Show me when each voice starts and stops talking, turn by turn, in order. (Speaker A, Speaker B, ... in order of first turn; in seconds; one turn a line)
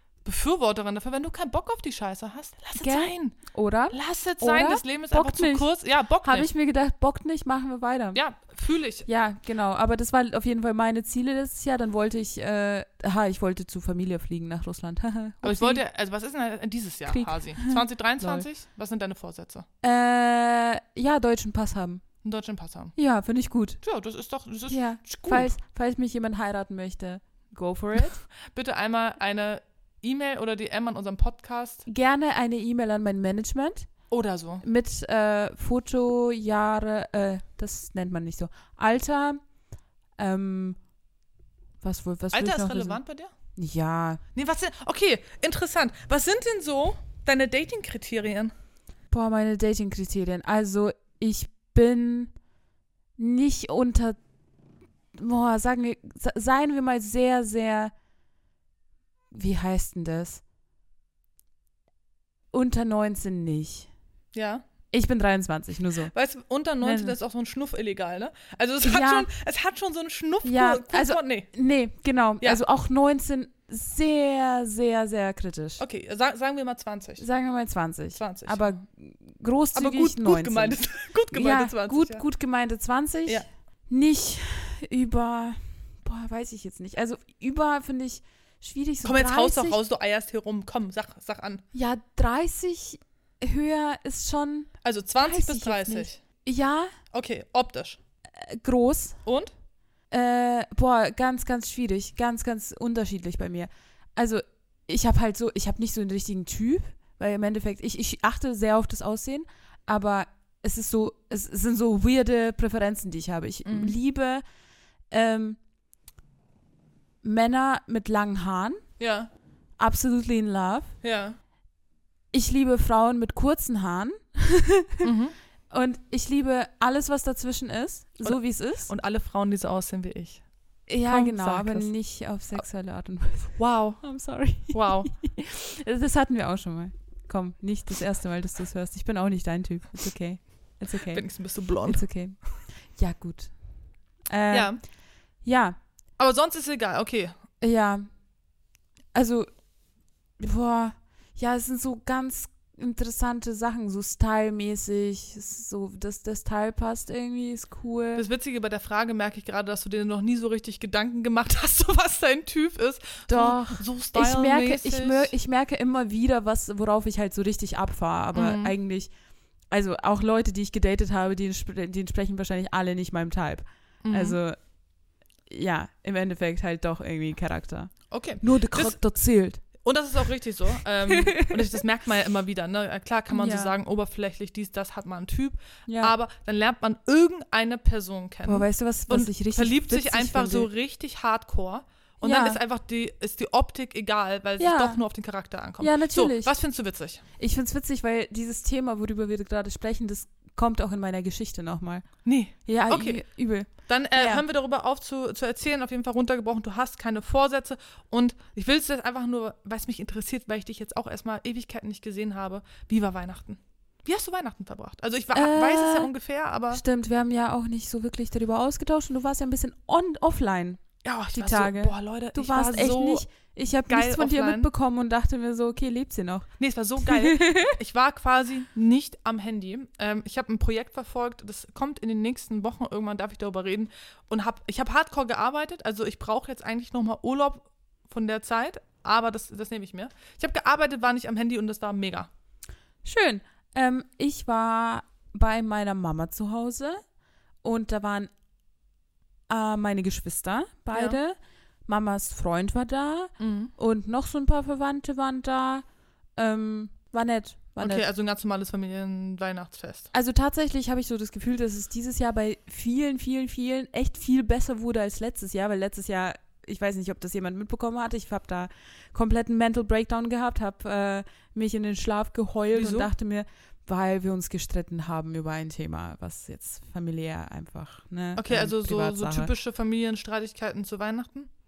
Speaker A: 0.2-3.4
Speaker B: 2.8-5.7
Speaker A: 3.9-6.5
Speaker B: 6.2-8.2
Speaker A: 8.1-9.1
Speaker B: 9.1-15.8
Speaker A: 15.4-19.7
Speaker B: 17.1-18.4
Speaker B: 19.8-22.0
Speaker A: 22.2-22.9
Speaker B: 23.0-23.8
Speaker A: 23.8-25.6
Speaker B: 24.7-28.2
Speaker A: 28.5-31.9
Speaker B: 31.9-33.9
Speaker A: 34.1-34.6
Speaker B: 34.6-39.4
Speaker B: 40.2-40.8
Speaker B: 41.8-43.0
Speaker A: 42.3-43.3
Speaker B: 43.6-44.2
Speaker A: 44.4-48.5
Speaker B: 49.1-52.3
Speaker B: 53.2-54.2
Speaker B: 55.1-57.9
Speaker B: 59.3-60.4
Speaker B: 62.5-63.9
Speaker A: 64.3-64.6
Speaker B: 64.9-66.1
Speaker A: 66.1-71.5
Speaker B: 66.8-67.2
Speaker B: 68.8-69.3
Speaker B: 70.4-75.8
Speaker A: 75.8-77.2
Speaker B: 77.2-80.8
Speaker A: 78.2-78.8
Speaker A: 79.7-82.2
Speaker B: 81.3-89.8
Speaker A: 89.0-91.6
Speaker B: 91.7-94.7
Speaker A: 94.8-96.2
Speaker B: 95.2-96.9
Speaker A: 97.1-98.0
Speaker B: 98.3-99.2
Speaker A: 99.2-99.5
Speaker B: 100.1-114.4
Speaker A: 113.7-114.0
Speaker B: 115.1-115.6
Speaker B: 117.2-118.8
Speaker A: 119.0-119.3
Speaker B: 119.8-120.9
Speaker A: 121.0-121.4
Speaker B: 122.3-125.1
Speaker A: 125.0-125.3
Speaker B: 125.7-128.9
Speaker A: 128.2-130.4
Speaker B: 130.9-141.2
Speaker A: 131.1-131.9
Speaker A: 133.6-134.0
Speaker A: 134.7-135.1
Speaker A: 141.1-142.0
Speaker B: 141.8-142.4
Speaker B: 142.9-143.5
Speaker B: 144.3-144.7
Speaker A: 144.5-144.8
Speaker B: 145.4-145.8
Speaker A: 146.2-147.3
Speaker B: 147.6-148.1
Speaker B: 149.1-149.5
Speaker B: 150.4-158.3
Speaker A: 158.2-165.3
Speaker B: 163.3-169.1
Speaker A: 168.3-168.7
Speaker B: 169.7-174.6
Speaker A: 174.0-174.4
Speaker B: 175.5-179.6
Speaker A: 178.1-179.0
Speaker A: 179.8-197.2
Speaker B: 181.1-181.8
Speaker B: 183.3-183.8
Speaker B: 185.9-186.2
Speaker B: 188.4-190.7
Speaker B: 192.2-192.6
Speaker B: 194.6-195.0
Speaker B: 195.8-196.5
Speaker B: 197.4-202.1
Speaker A: 202.2-203.2
Speaker B: 202.7-204.4
Speaker A: 203.9-216.8
Speaker B: 215.3-216.1
Speaker B: 216.7-226.5
Speaker A: 221.0-223.2
Speaker A: 223.9-224.7
Speaker A: 226.6-242.3
Speaker B: 227.0-227.8
Speaker B: 243.1-247.0
Speaker B: 247.6-248.3
Speaker B: 249.5-251.4
Speaker A: 250.9-251.2
Speaker B: 251.9-255.8
Speaker A: 253.4-253.7
Speaker B: 256.4-258.0
Speaker A: 257.8-260.1
Speaker B: 260.1-279.5
Speaker A: 272.7-273.1
Speaker A: 278.4-281.5